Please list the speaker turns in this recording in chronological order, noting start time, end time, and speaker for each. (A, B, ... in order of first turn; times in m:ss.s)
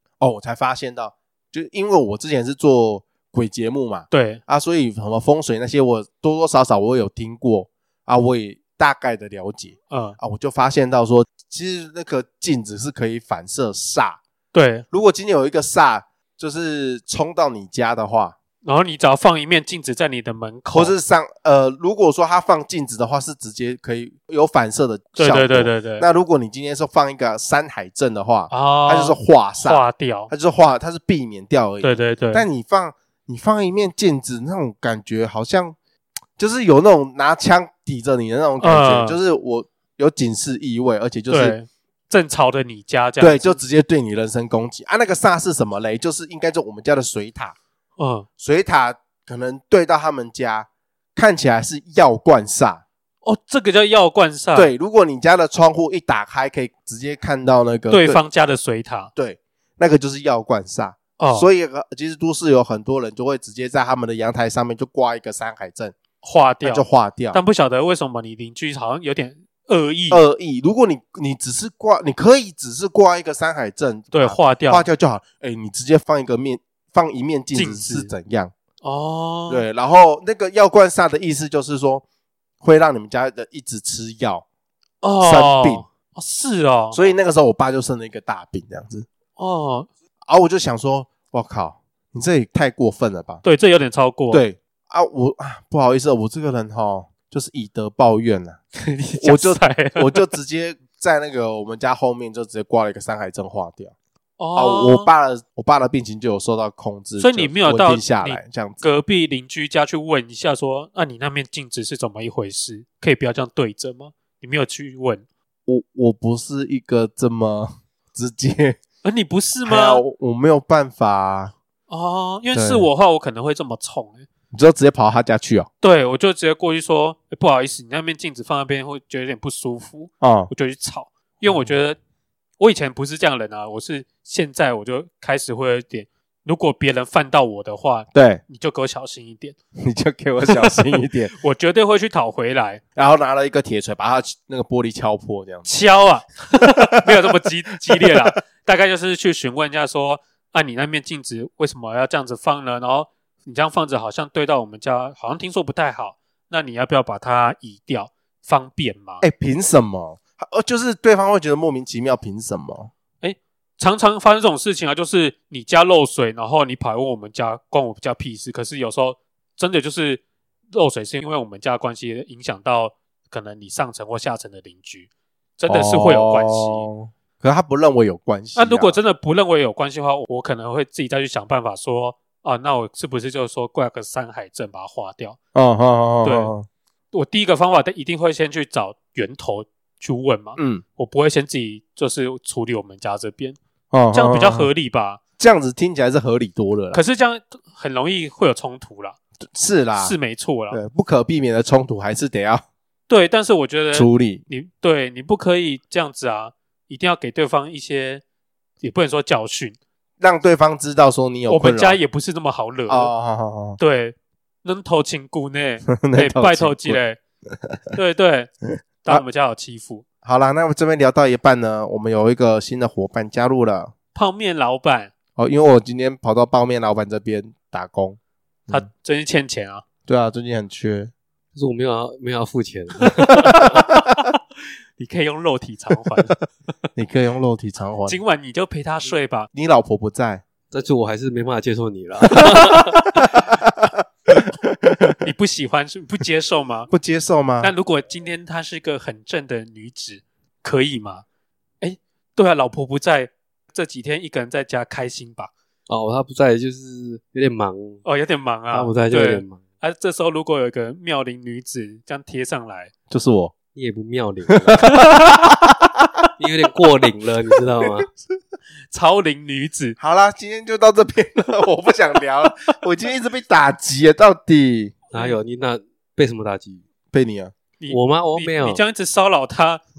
0:00.2-0:14.2 A
0:04.1-0:04.4 B
0:09.9-0:10.2 B
0:14.5-0:14.9 B
0:14.9-0:18.4 A
0:18.6-0:21.0 B
0:20.7-0:35.8 A
0:25.2-0:26.0 B
0:28.5-0:30.3 B
0:31.8-0:32.5 B
0:36.4-0:41.6 A
0:38.6-0:39.2 B
0:41.3-0:43.6 B
0:43.2-0:47.6 A
0:48.0-0:48.3 B
0:48.4-0:52.8 A
0:53.2-0:54.7 B
0:54.5-0:58.2 A
0:57.9-0:59.1 B
0:59.2-1:06.0 A
1:01.2-1:01.5 B
1:06.2-1:10.2 B
1:06.6-1:07.4 A
1:10.1-1:18.5 A
1:14.1-1:14.9 B
1:17.5-1:18.1 B
1:18.8-1:19.6 B
1:19.5-1:22.0 A
1:22.6-1:24.4 A
1:25.0-1:27.0 B
1:25.2-1:25.8 A
1:26.9-1:29.1 A
1:29.4-1:29.9 B
1:30.3-1:33.4 A
1:33.4-1:34.4 B
1:34.3-1:38.6 A
1:38.8-1:40.3 B
1:39.2-1:44.0 A
1:44.4-1:45.1 B
1:44.6-1:48.9 A
1:47.2-1:55.2 B
1:55.7-1:58.8 A
1:59.0-2:00.0 B
1:59.7-2:01.6 A
2:01.9-2:04.3 B
2:02.5-2:02.9 A
2:04.5-2:05.7 A
2:05.8-2:12.0 B
2:10.2-2:10.5 A
2:12.6-2:19.6 B
2:18.1-2:18.4 A
2:19.8-2:21.3 A
2:20.4-2:22.8 B
2:23.0-2:25.7 A
2:25.7-2:39.2 B
2:27.9-2:28.2 A
2:39.2-2:42.9 A
2:43.2-2:50.2 B
2:50.7-2:55.1 B
2:55.6-2:56.9 B
2:55.7-2:59.0 A
2:58.6-3:05.4 B
3:05.6-3:06.7 A
3:06.2-3:06.5 B
3:07.1-3:13.6 B
3:10.6-3:10.8 A
3:13.9-3:14.7 A
3:14.1-3:15.2 B
3:15.4-3:17.0 A
3:16.9-3:19.2 B
3:19.5-3:20.2 A
3:20.0-3:20.8 B
3:20.7-3:22.6 A
3:23.1-3:28.2 B
3:23.9-3:24.4 A
3:28.8-3:29.8 B
3:30.2-3:32.0 A
3:31.5-3:33.1 B
3:32.9-3:33.8 A
3:33.8-3:37.2 B
3:35.9-3:37.0 A
3:37.6-3:38.0 A
3:37.9-3:38.5 B
3:39.0-3:40.0 B
3:40.2-3:43.9 A
3:44.1-3:45.1 B
3:45.4-3:48.9 A
3:48.7-3:49.8 B
3:50.1-3:51.1 A
3:51.5-3:53.6 C
3:53.2-3:53.7 B
3:53.3-3:54.0 A
3:55.0-3:56.4 B
3:57.0-3:58.2 A
3:58.1-3:59.5 B
3:59.5-4:00.4 A
4:00.7-4:03.2 C
4:03.2-4:05.2 A
4:05.2-4:06.9 B
4:06.9-4:07.7 A
4:07.6-4:11.2 B
4:11.8-4:15.5 B
4:15.9-4:18.0 C
4:18.0-4:22.9 B
4:18.7-4:19.6 C
4:23.1-4:23.5 A
4:23.8-4:24.9 C
4:24.6-4:26.3 A
4:24.9-4:25.3 B
4:26.4-4:28.1 C
4:28.9-4:30.0 B
4:30.0-4:35.0 A
4:35.1-4:36.8 C
4:37.1-4:37.5 A
4:37.8-4:39.8 B
4:37.9-4:38.8 C